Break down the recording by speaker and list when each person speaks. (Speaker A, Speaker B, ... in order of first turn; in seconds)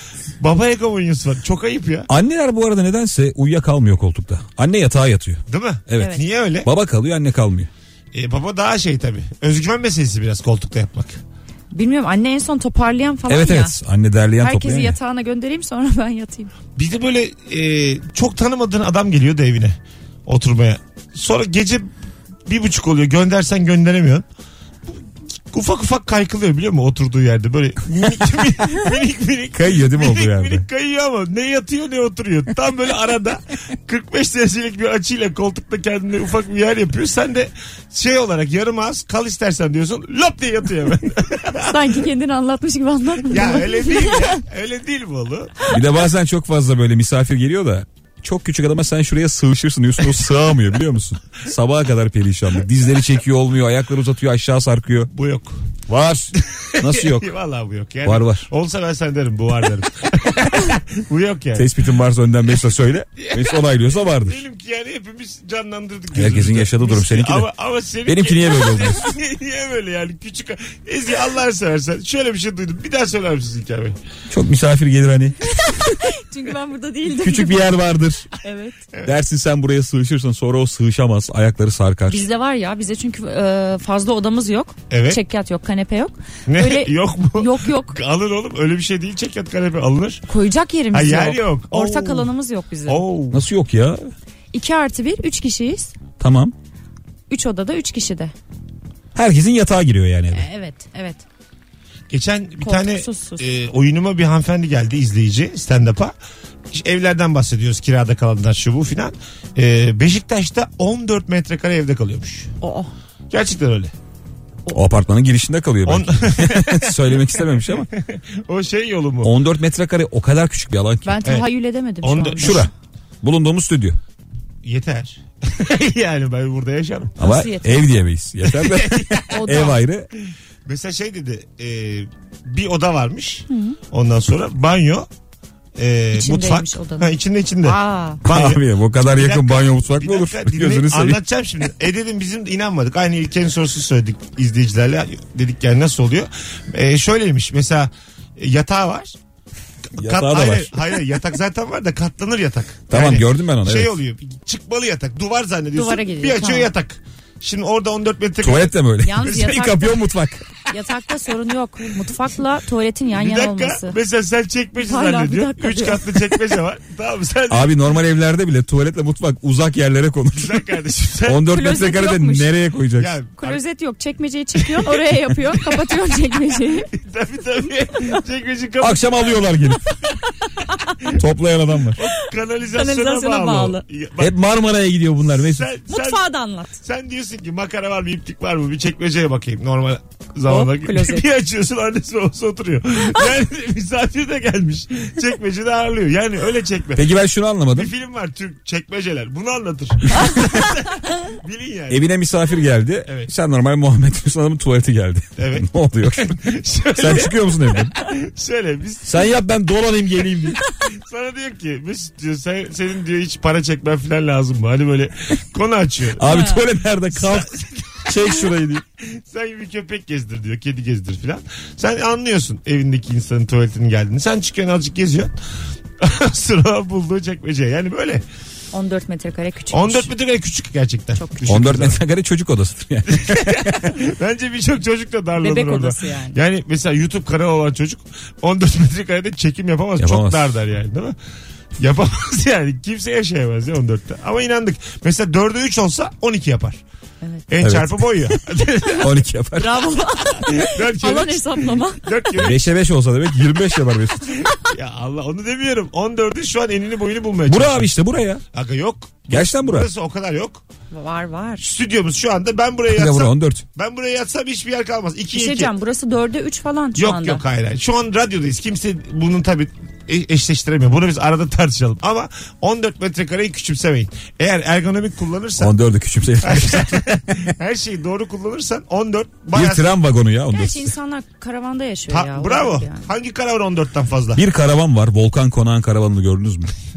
Speaker A: 0.4-2.1, 5.5-6.7, 8.1-11.2, 16.8-21.9, 22.5-24.2, 25.5-42.0, 43.3-45.6, 55.1-55.7, 56.4-61.7, 63.2-74.0, 84.9-85.2, 86.5-90.2, 90.9-92.3, 92.9-93.4, 102.1-106.1, 106.7-112.5, 113.3-113.9, 115.8-119.3, 122.0-122.7, 124.6-127.2, 128.5-135.1, 135.8-149.2, 149.9-159.6, 163.1-167.7, 170.4-171.4, 173.0-173.6, 174.6-175.3, 176.9-179.8, 181.9-184.3, 185.3-186.2, 186.8-197.1, 197.7-202.0, 203.1-203.3, 205.4-209.3, 210.8-216.5, 217.1-218.4, 219.0-225.3, 226.0-228.2, 229.7-232.0, 233.1-241.2, 241.8-246.8, 247.5-249.2, 250.3-252.6, 254.4-257.9, 258.5-260.6, 261.6-265.7, 267.0-275.7, 276.4-279.9, 282.1-284.4
Speaker B: 2.1-7.7, 13.3-15.0, 29.5-30.7, 45.7-55.1, 55.9-57.3, 58.0-58.5, 61.5-64.4, 66.1-67.5, 68.0-69.1, 74.3-75.5, 77.1-78.3, 79.1-82.2, 93.3-94.1, 96.2-96.5, 99.2-100.5, 114.7-117.9, 119.2-121.2, 122.4-122.7, 123.2-124.0, 127.2-130.1, 138.2-141.2, 150.0-151.0, 152.9-154.0, 158.4-160.4, 167.5-170.6, 171.2-173.2, 178.8-179.9, 181.1-182.0, 184.2-185.7, 196.9-197.9, 200.1-200.6, 201.9-206.4, 206.9-207.9, 209.0-210.6, 216.2-217.5, 218.0-218.8, 231.5-233.9, 240.0-240.6, 247.6-249.9, 252.4-254.4, 257.5-258.4, 259.3-259.9, 262.9-263.6, 275.6-277.5, 279.5-280.9, 284.4-286.7
Speaker C: 6.0-6.3, 11.7-13.8, 14.4-16.5, 41.5-44.4, 75.5-77.7, 78.4-78.8, 82.1-88.0, 90.3-93.0, 94.5-95.9, 97.3-98.3, 100.3-101.2, 102.6-103.4, 112.6-112.9, 121.0-122.7, 127.2-127.9, 129.3-129.8, 133.5-133.8, 136.1-138.2, 155.7-156.7, 159.0-164.0, 164.8-166.5, 171.4-172.5, 173.4-176.9, 180.6-181.0, 182.7-183.8, 185.9-186.8, 190.5-191.2, 216.2-216.6, 228.7-230.1, 231.2-231.6, 235.4-236.4, 249.6-252.2, 260.9-261.7, 265.3-267.4, 280.5-283.1